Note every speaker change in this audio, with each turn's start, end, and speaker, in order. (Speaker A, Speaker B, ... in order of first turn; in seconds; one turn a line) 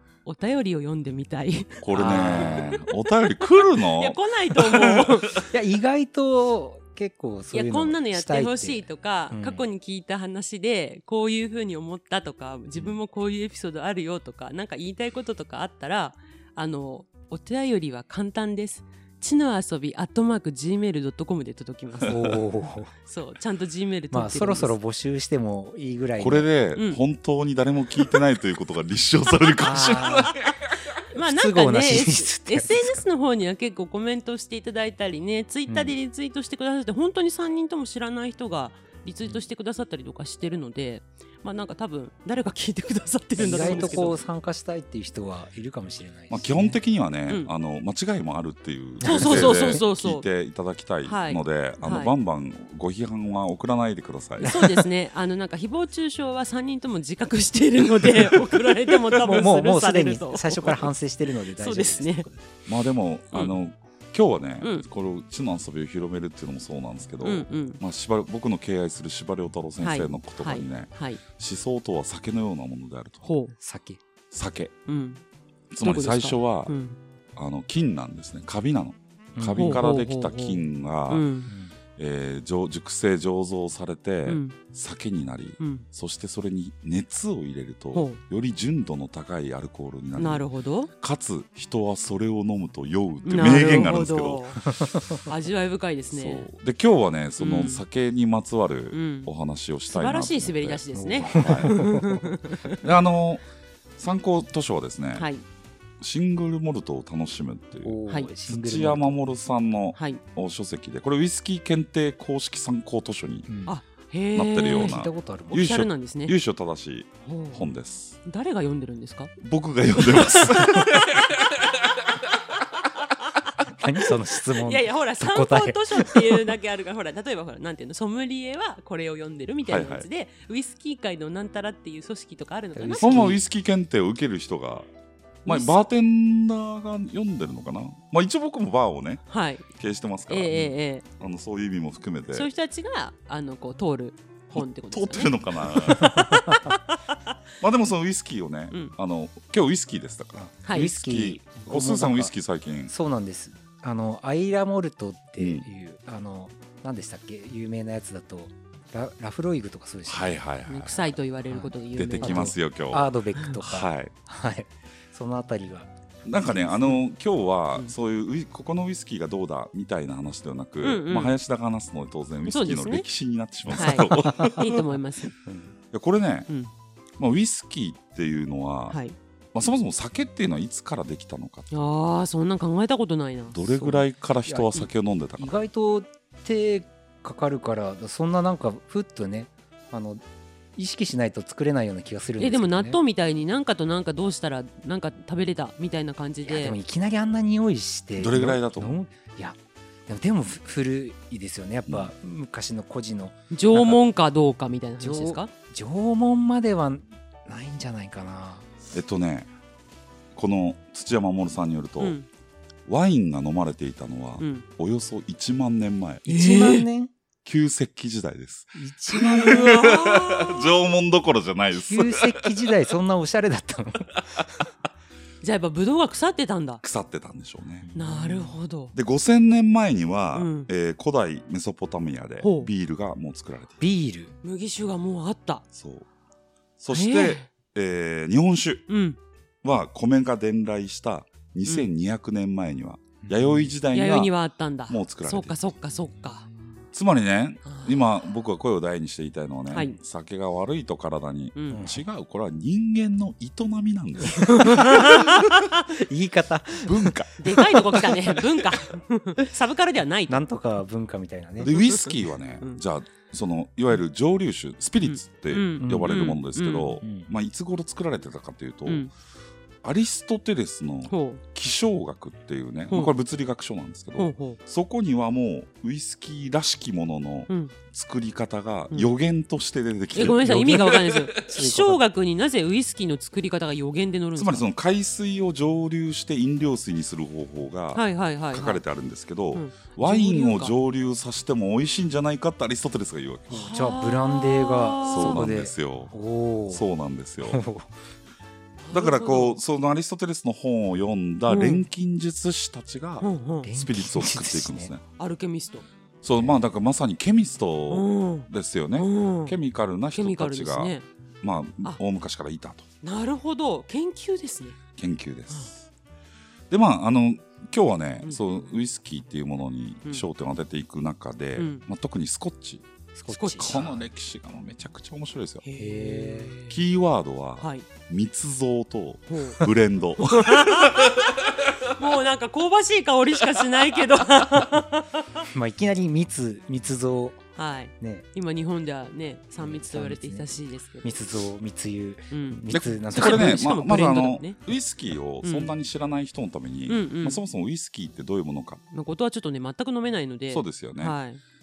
Speaker A: 0.2-5.5
Speaker B: 1.8-5.2
Speaker C: 1.9-2.6
Speaker C: 5.5-9.6
Speaker A: 7.5-22.4
Speaker C: 22.1-22.9
Speaker A: 23.0-24.8
Speaker C: 24.1-26.5
Speaker B: 26.2-30.8
Speaker A: 26.8-27.0
Speaker C: 29.6-30.3
Speaker A: 29.7-30.4
Speaker A: 31.1-44.2
Speaker C: 31.2-33.0
Speaker C: 35.7-35.9
Speaker C: 43.4-46.8
Speaker B: 43.4-44.1
Speaker B: 46.3-54.5
Speaker C: 49.0-49.6
Speaker A: 49.0-50.2
Speaker A: 51.0-52.1
Speaker A: 54.4-62.3
Speaker C: 54.4-54.9
Speaker C: 59.2-62.4
Speaker B: 62.7-73.3
Speaker A: 64.6-64.9
Speaker A: 67.2-67.8
Speaker A: 69.8-71.2
Speaker A: 73.2-73.5
Speaker C: 73.6-74.0
Speaker B: 74.3-74.7
Speaker A: 74.9-75.2
Speaker B: 75.7-76.7
Speaker A: 75.8-77.0
Speaker B: 77.3-81.3
Speaker C: 79.4-79.9
Speaker A: 79.5-81.5
Speaker C: 81.5-81.7
Speaker B: 82.0-90.4
Speaker A: 84.2-84.6
Speaker A: 85.6-85.9
Speaker A: 87.9-88.2
Speaker A: 90.2-90.9
Speaker B: 91.0-94.5
Speaker A: 93.2-96.5
Speaker C: 94.8-95.2
Speaker B: 96.1-101.9
Speaker A: 97.4-97.8
Speaker A: 98.9-99.3
Speaker A: 99.9-102.8
Speaker C: 101.0-102.3
Speaker B: 102.7-103.4
Speaker B: 104.0-105.3
Speaker A: 105.1-105.5
Speaker B: 106.0-113.5
Speaker C: 107.8-109.2
Speaker A: 110.0-110.2
Speaker C: 113.5-113.8
Speaker A: 113.7-115.0
Speaker B: 114.3-118.2
Speaker C: 114.6-115.7
Speaker A: 115.5-116.4
Speaker A: 117.3-117.7
Speaker A: 118.2-119.3
Speaker B: 119.4-122.3
Speaker A: 120.0-133.4
Speaker C: 123.7-126.5
Speaker B: 129.6-130.1
Speaker C: 132.8-133.4
Speaker B: 133.0-134.9
Speaker A: 135.4-135.8
Speaker B: 135.4-140.6
Speaker A: 139.3-139.7
Speaker A: 140.3-141.1
Speaker C: 140.5-140.8
Speaker B: 141.2-142.5
Speaker A: 142.3-146.9
Speaker B: 144.5-146.4
Speaker C: 146.1-146.4
Speaker B: 147.6-152.9
Speaker A: 148.7-148.9
Speaker C: 150.4-152.3
Speaker A: 150.6-150.9
Speaker C: 152.9-160.4
Speaker B: 155.4-155.7
Speaker B: 160.1-161.1
Speaker A: 160.7-162.5
Speaker C: 161.5-165.9
Speaker B: 161.9-163.1
Speaker B: 163.6-164.1
Speaker B: 166.2-174.8
Speaker C: 166.5-167.0
Speaker A: 170.8-171.4
Speaker A: 172.4-173.1
Speaker A: 173.8-175.3
Speaker C: 175.4-175.7
Speaker B: 175.9-176.5
Speaker B: 177.2-179.0
Speaker A: 178.9-179.2
Speaker B: 179.5-181.7
Speaker A: 181.7-184.1
Speaker B: 183.5-185.6
Speaker C: 184.4-190.2
Speaker C: 190.8-193.0
Speaker A: 192.4-196.8
Speaker C: 196.4-203.4
Speaker B: 198.2-198.9
Speaker B: 201.9-202.1
Speaker A: 203.5-205.5
Speaker C: 205.0-208.7
Speaker B: 208.9-209.5
Speaker B: 210.3-212.2
Speaker A: 212.0-212.3
Speaker B: 212.9-216.2
Speaker A: 214.4-214.7
Speaker C: 216.2-217.1
Speaker A: 216.3-216.9
Speaker B: 217.4-222.7
Speaker C: 218.8-219.7
Speaker A: 219.2-220.7
Speaker C: 221.7-224.7
Speaker A: 225.4-226.8
Speaker B: 226.8-227.9
Speaker C: 227.8-228.6
Speaker A: 227.9-228.9
Speaker B: 228.9-233.8
Speaker A: 230.3-230.7
Speaker A: 232.4-232.7
Speaker C: 233.8-234.3
Speaker A: 234.4-235.7
Speaker B: 235.7-236.1
Speaker B: 236.8-238.9
Speaker A: 236.9-237.5
Speaker A: 238.9-239.2
Speaker B: 239.6-244.3
Speaker C: 243.2-243.7
Speaker A: 243.9-246.4
Speaker B: 244.9-245.6
Speaker C: 246.1-246.8
Speaker B: 246.9-255.7
Speaker A: 247.7-248.0
Speaker A: 249.7-250.0
Speaker A: 251.6-251.8
Speaker C: 251.7-252.0
Speaker C: 254.2-258.4
Speaker A: 254.5-255.5
Speaker B: 256.9-257.4
Speaker A: 257.4-260.4
Speaker C: 260.3-261.7
Speaker B: 261.6-269.1
Speaker A: 261.6-262.8
Speaker A: 265.0-267.0
Speaker C: 265.8-266.4
Speaker C: 267.0-267.3
Speaker A: 268.9-269.1
Speaker B: 269.8-281.4
Speaker A: 271.1-271.4
Speaker A: 272.9-273.1
Speaker A: 274.2-274.6
Speaker A: 277.5-277.7
Speaker A: 280.1-284.7
Speaker C: 280.3-282.0
Speaker B: 284.4-293.7
Speaker A: 287.9-288.8
Speaker A: 289.5-290.7
Speaker C: 293.5-296.9
Speaker A: 293.5-295.5
Speaker B: 295.1-296.1
Speaker B: 296.7-297.6
Speaker C: 297.4-297.9
Speaker A: 298.8-299.6
Speaker B: 298.9-305.0
Speaker A: 301.5-301.9
Speaker A: 303.2-303.7
Speaker C: 303.6-304.9
Speaker A: 305.2-305.9
Speaker B: 306.2-312.9
Speaker C: 306.4-306.6
Speaker A: 307.9-309.6
Speaker A: 310.1-311.1
Speaker A: 313.0-314.8
Speaker B: 315.0-315.9
Speaker B: 316.7-322.9
Speaker A: 321.6-321.8
Speaker C: 323.1-324.1
Speaker A: 323.3-323.8
Speaker B: 323.6-325.6
Speaker A: 325.6-326.8
Speaker C: 325.8-326.6
Speaker B: 326.7-331.3
Speaker A: 327.6-327.9
Speaker A: 329.3-329.7
Speaker A: 330.3-335.4
Speaker C: 335.4-337.4
Speaker A: 337.6-341.2
Speaker C: 338.0-338.3
Speaker C: 339.6-343.6
Speaker A: 342.3-344.6
Speaker B: 342.7-348.8
Speaker A: 345.4-345.7
Speaker A: 346.9-347.4
Speaker A: 348.9-351.4
Speaker B: 350.5-351.2